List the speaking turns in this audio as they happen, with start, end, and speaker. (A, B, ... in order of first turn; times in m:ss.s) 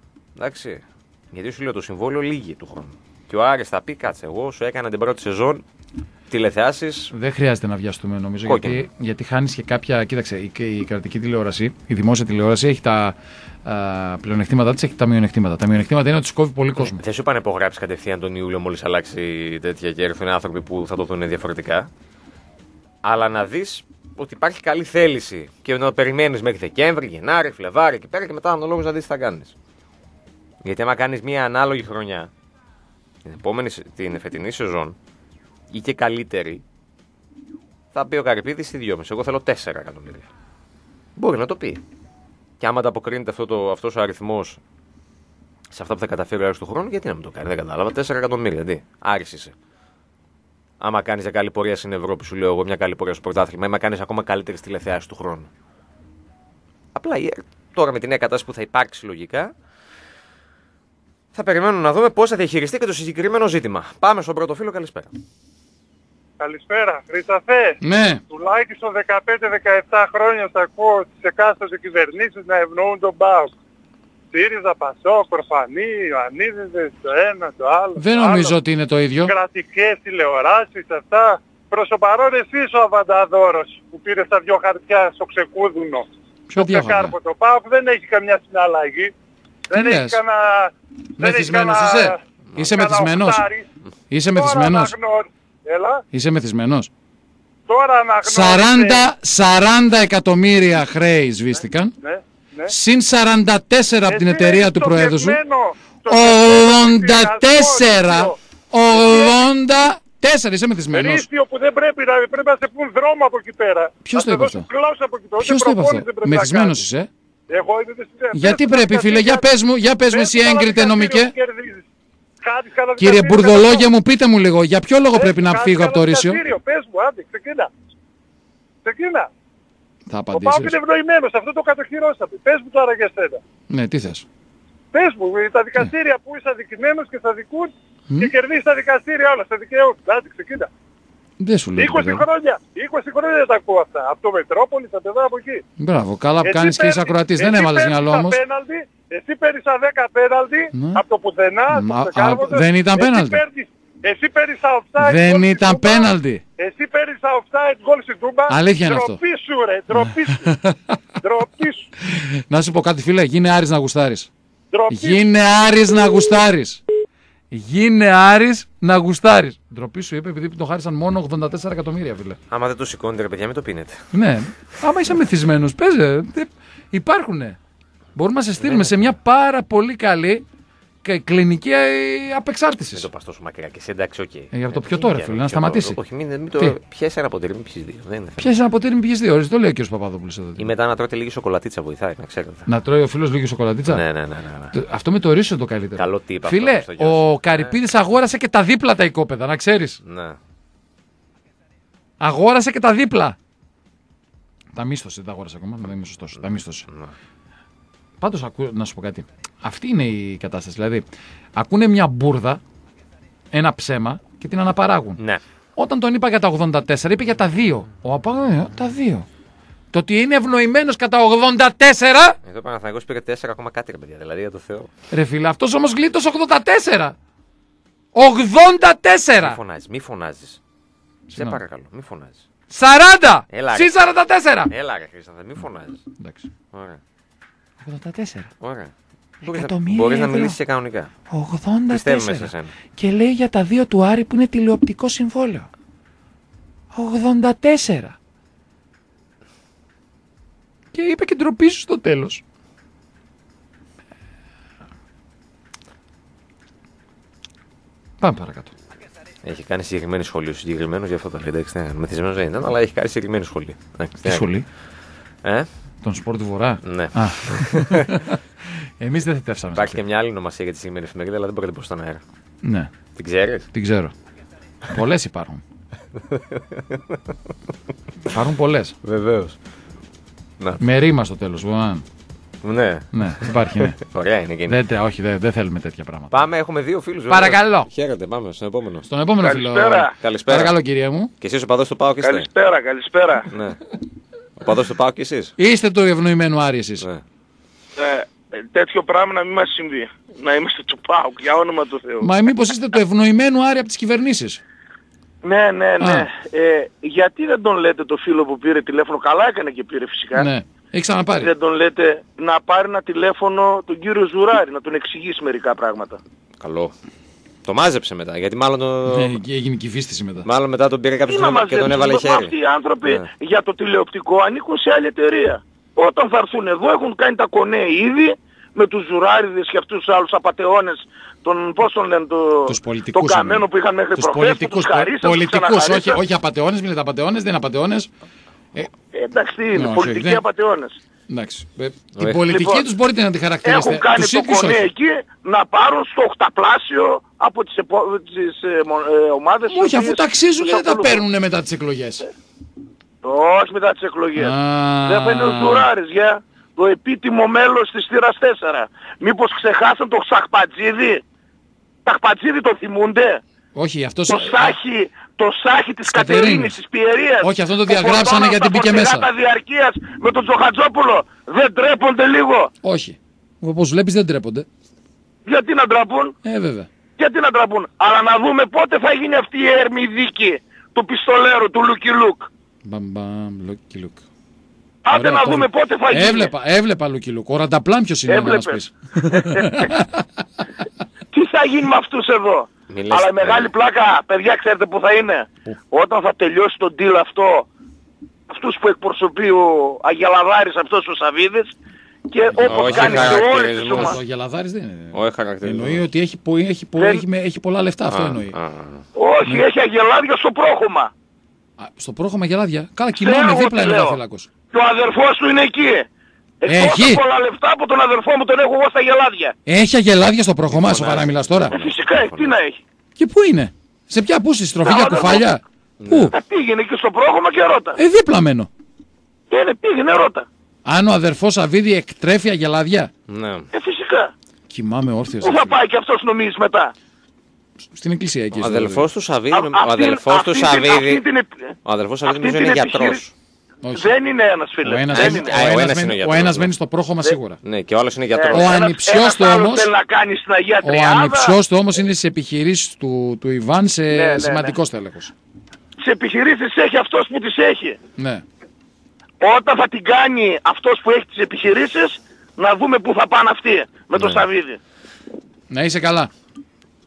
0:00.4-0:05.6 A
0:06.3-0:07.1 A
0:07.1-0:17.0 B
0:08.4-0:08.8 A
0:16.9-0:21.9 A
0:23.0-0:29.5 A
0:30.6-0:32.3 A
0:33.2-0:35.0 A
0:35.7-0:36.6 A
0:37.9-0:40.3 A
0:41.2-0:41.8 A
0:42.6-0:44.6 A
0:45.7-0:49.5 A
0:50.8-0:55.5 A
0:56.9-0:59.5 A
1:01.3-1:05.2 A
1:06.4-1:07.8 C
1:07.8-1:08.2 B
1:08.3-1:13.5 C
1:14.3-1:18.6 C
1:18.0-1:19.3 B
1:19.2-1:29.1 C
1:26.5-1:27.1 B
1:29.7-1:33.7 C
1:29.7-1:30.2 B
1:31.2-1:33.4 B
1:34.1-1:34.9 B
1:34.3-1:36.0 C
1:36.1-1:36.9 B
1:37.7-1:39.0 C
1:38.2-1:41.9 B
1:42.0-1:42.7 C
1:42.7-1:45.4 B
1:44.1-1:48.3 C
1:46.0-1:51.2 B
1:49.0-1:49.3 C
1:50.9-1:56.8 C
1:54.0-1:54.7 B
1:55.4-1:57.1 B
1:57.5-1:59.5 C
1:58.3-2:01.3 B
2:00.1-2:01.8 C
2:02.4-2:03.9 C
2:03.0-2:06.4 B
2:05.1-2:07.7 C
2:08.8-2:09.3 C
2:10.1-2:10.8 B
2:10.3-2:13.4 C
2:13.7-2:14.2 B
2:14.9-2:20.7 C
2:21.4-2:22.2 B
2:21.8-2:25.6 C
2:25.8-2:28.4 B
2:26.4-2:40.5 C
2:30.7-2:31.0 B
2:31.7-2:33.4 B
2:35.0-2:36.4 B
2:38.5-2:39.2 B
2:39.9-2:41.0 B
2:41.2-2:41.9 C
2:42.0-2:44.3 B
2:44.7-2:45.2 C
2:44.9-2:46.8 B
2:47.5-2:52.4 B
2:52.5-2:54.0 A
2:54.1-2:57.6 B
2:58.1-3:00.4 B
2:58.6-2:58.9 A
3:01.0-3:03.1 B
3:02.9-3:08.5 A
3:04.5-3:06.0 B
3:08.4-3:10.7 B
3:10.6-3:12.7 A
3:12.7-3:14.0 B
3:13.9-3:14.8 A
3:14.7-3:20.0 B
3:16.0-3:17.7 A
3:20.0-3:20.4 A
3:22.2-3:23.4 B
3:24.7-3:26.9 B
3:26.4-3:27.1 A
3:28.2-3:32.6 B
3:33.5-3:35.2 B
3:35.8-3:39.3 B
3:39.9-3:42.4 B
3:42.4-3:44.9 A
3:45.1-3:47.1 B
3:48.1-3:49.6 B
3:49.4-3:50.6 A
3:51.3-3:51.6 B
3:51.3-3:52.4 A
3:52.7-3:54.7 B
3:53.5-3:53.9 A
3:54.7-3:56.0 A
3:56.2-3:56.5 B
3:56.7-3:57.0 A
3:57.8-3:58.5 B
3:58.6-4:01.1 A
3:59.4-4:00.6 B
4:01.3-4:05.7 B
4:01.9-4:02.7 A
4:06.9-4:08.2 B
4:10.9-4:12.4 B
4:18.2-4:18.7 B
4:19.4-4:24.5 A
4:24.2-4:24.6 B
4:26.0-4:30.0 B
4:26.8-4:28.3 A
4:29.7-4:32.2 A
4:32.6-4:32.9 B
4:33.2-4:33.7 A
4:33.7-4:34.1 B
4:34.9-4:35.6 B
4:36.3-4:37.2 A
4:38.2-4:38.9 B
4:39.0-4:39.6 A
4:40.8-4:42.0 B
4:42.6-4:44.8 A
4:43.1-4:44.0 B
4:44.7-4:46.4 B
4:46.3-4:49.1 A
4:47.3-4:47.9 B
4:49.1-4:51.3 B
4:49.4-4:50.1 D
4:50.2-4:50.8 A
4:51.4-4:52.5 A
4:52.2-4:53.5 D
4:53.5-4:53.8 A
4:54.6-4:55.5 A
4:55.6-4:57.0 B
4:58.0-5:02.3 D
5:02.2-5:04.6 B
5:05.4-5:10.5 D
5:06.0-5:06.3 B
5:10.3-5:11.5 B
5:11.4-5:16.2 D
5:16.6-5:16.9 A
5:17.6-5:19.4 A
5:19.1-5:20.5 B
5:20.4-5:22.5 A
5:21.3-5:36.2 D
5:32.6-5:38.1 B
5:39.1-5:41.0 D
5:39.7-5:40.4 B
5:41.3-5:44.8 B
5:42.2-5:42.4 A
5:42.5-5:42.8 D
5:43.6-5:51.2 D
5:49.7-5:52.2 B
5:53.2-6:01.2 D
5:54.3-5:55.9 B
6:02.0-6:03.4 D
6:03.7-6:04.8 B
6:04.3-6:12.7 D
6:06.0-6:06.8 B
6:07.4-6:09.3 B
6:12.8-6:14.7 B
6:15.4-6:16.3 D
6:16.4-6:16.9 B
6:17.2-6:22.5 D
6:22.8-6:24.2 B
6:25.0-6:26.5 D
6:25.1-6:30.4 B
6:28.3-6:29.9 D
6:31.3-6:37.6 D
6:32.9-6:33.7 A
6:38.5-6:41.7 D
6:42.3-6:44.2 D
6:42.5-6:48.6 B
6:42.6-6:44.2 A
6:45.1-6:46.0 A
6:47.0-6:47.2 D
6:48.1-6:49.0 A
6:49.1-6:51.1 D
6:51.8-6:54.5 B
6:53.2-6:54.2 D
6:54.7-6:56.1 D
6:56.6-6:59.5 D
6:56.6-6:57.2 B
6:59.6-7:01.8 B
7:00.7-7:02.5 A
7:01.7-7:02.8 D
7:03.2-7:06.3 B
7:04.8-7:05.4 D
7:06.0-7:06.3 A
7:06.3-7:08.0 D
7:07.9-7:08.7 B
7:09.5-7:10.5 D
7:10.8-7:13.1 B
7:13.3-7:13.7 A
7:13.7-7:14.3 D
7:14.7-7:15.8 B
7:15.4-7:16.9 D
7:17.8-7:19.1 B
7:18.5-7:21.2 A
7:19.5-7:23.2 D
7:21.8-7:23.3 A
7:23.8-7:24.1 B
7:23.9-7:25.6 D
7:24.8-7:27.6 B
7:25.1-7:26.7 A
7:27.6-7:28.7 A
7:28.3-7:31.5 D
7:28.5-7:29.9 B
7:30.8-7:35.3 B
7:34.1-7:34.7 D
7:36.0-7:38.0 D
7:38.2-7:38.4 B
7:39.4-7:44.8 D
7:44.1-7:44.4 A
7:45.7-7:46.3 B